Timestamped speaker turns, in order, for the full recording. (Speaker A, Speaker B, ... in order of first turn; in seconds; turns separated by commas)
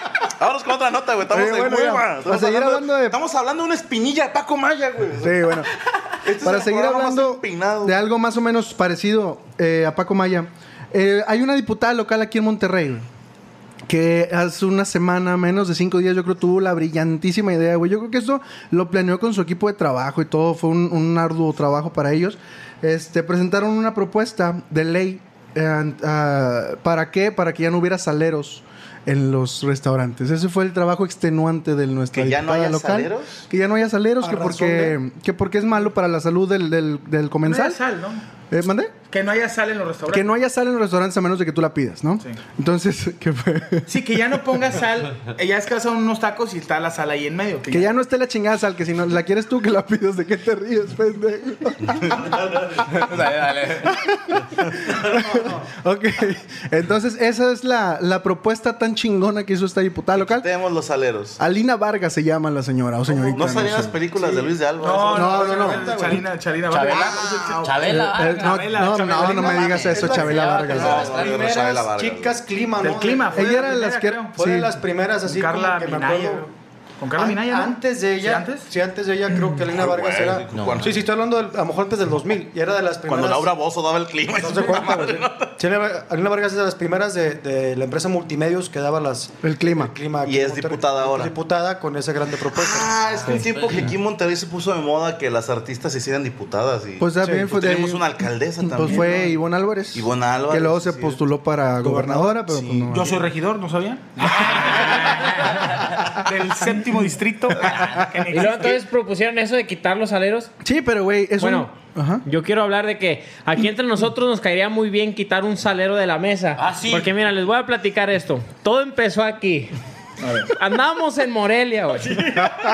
Speaker A: 0.4-5.5, Speaker B: 1.3-3.2, Speaker B: 5.2-5.7, Speaker A: 6.2-7.9, Speaker B: 6.4-13.0, Speaker B: 13.8-37.8, Speaker A: 32.1-33.4, Speaker C: 34.2-34.9, Speaker D: 37.4-38.2, Speaker B: 38.5-38.9, Speaker D: 39.1-40.3, Speaker B: 40.1-43.9, Speaker D: 43.9-47.9, Speaker B: 47.7-52.5, Speaker E: 53.1-53.8, Speaker B: 53.8-60.5, Speaker C: 55.2-55.7, Speaker A: 60.1-61.4, Speaker B: 61.4-63.9, Speaker C: 63.1-64.5, Speaker A: 63.3-65.6, Speaker D: 64.8-69.8, Speaker B: 65.1-65.8, Speaker C: 65.2-66.2, Speaker E: 66.7-68.7, Speaker A: 66.9-67.6, Speaker B: 67.9-71.0, Speaker E: 69.5-71.5, Speaker C: 69.5-73.7, Speaker A: 69.9-72.3, Speaker D: 72.8-74.3, Speaker B: 73.3-74.8, Speaker C: 74.3-76.5, Speaker D: 75.2-78.7, Speaker C: 77.1-83.5, Speaker A: 79.7-81.1, Speaker E: 80.5-80.9, Speaker A: 83.1-85.5, Speaker C: 84.3-93.4, Speaker B: 89.4-89.9, Speaker A: 90.2-91.3, Speaker A: 92.5-99.3, Speaker E: 93.2-93.9, Speaker B: 97.0-98.0, Speaker C: 97.2-97.6, Speaker B: 98.6-103.2, Speaker A: 99.9-101.2, Speaker C: 101.8-102.5, Speaker A: 102.5-102.9, Speaker D: 102.9-108.8, Speaker F: 104.3-105.6, Speaker F: 108.3-110.5, Speaker B: 110.6-112.2, Speaker F: 111.4-111.7, Speaker F: 112.2-119.7, Speaker E: 116.6-117.1, Speaker D: 120.2-120.5, Speaker F: 120.5-122.5